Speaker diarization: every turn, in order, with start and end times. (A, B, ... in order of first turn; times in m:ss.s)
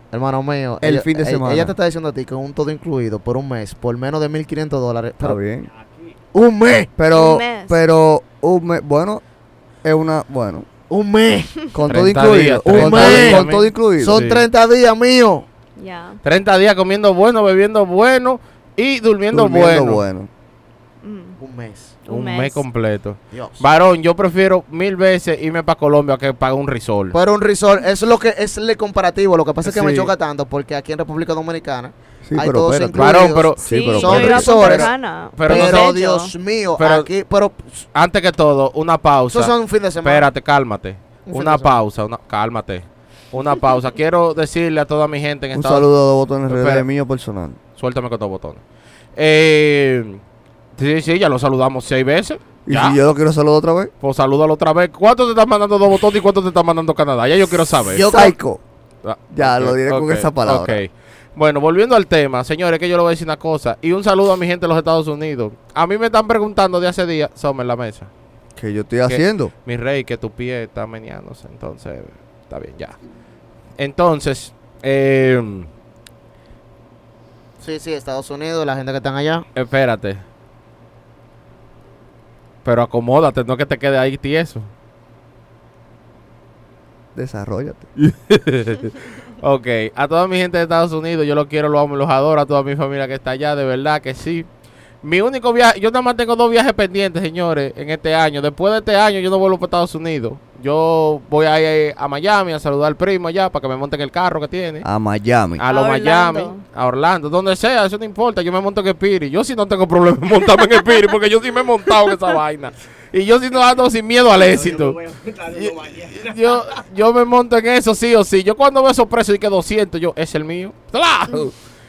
0:00.1-0:05.4 A
0:00.8-0:01.8 B
0:05.2-0:05.7 B
0:05.6-0:06.2 C
0:06.3-0:06.9 A
0:07.0-0:09.2 B
0:07.1-0:07.8 D
0:09.8-0:10.7 B
0:10.9-0:11.7 A
0:11.7-0:14.2 B
0:11.9-0:14.4 E
0:12.6-0:13.4 A
0:14.0-0:15.5 A
0:15.8-0:16.2 D
0:16.2-0:20.0 E
0:19.3-0:20.3 B
0:21.0-0:21.4 D
0:21.4-0:22.0 A
0:22.0-0:22.6 D
0:22.1-0:27.2 E
0:23.3-0:23.6 A
0:27.1-0:37.9 A
0:29.6-0:30.1 E
0:32.2-0:34.9 B
0:32.9-0:33.7 E
0:33.6-0:36.3 D
0:34.2-0:35.9 E
0:36.8-0:37.1 E
0:37.9-0:45.9 E
0:39.3-0:40.3 A
0:41.2-0:41.8 A
0:45.5-0:47.6 B
0:46.4-0:46.8 E
0:47.8-0:48.6 E
0:49.2-0:50.2 E
0:50.8-0:53.0 E
0:52.6-0:53.9 B
0:54.0-0:58.0 E
0:57.9-0:58.3 A
0:58.0-0:58.6 B
0:59.0-1:08.1 E
0:59.3-1:00.8 B
1:08.6-1:09.5 B
1:09.1-1:13.0 E
1:13.8-1:15.7 E
1:17.6-1:19.4 A
1:19.5-1:20.2 E
1:22.6-1:24.7 E
1:27.1-1:27.9 B
1:28.0-1:34.5 E
1:35.0-1:44.8 E
1:44.8-1:45.6 B
1:45.6-1:55.0 E
1:45.6-1:46.6 D
1:54.3-1:56.8 C
1:55.5-2:01.6 E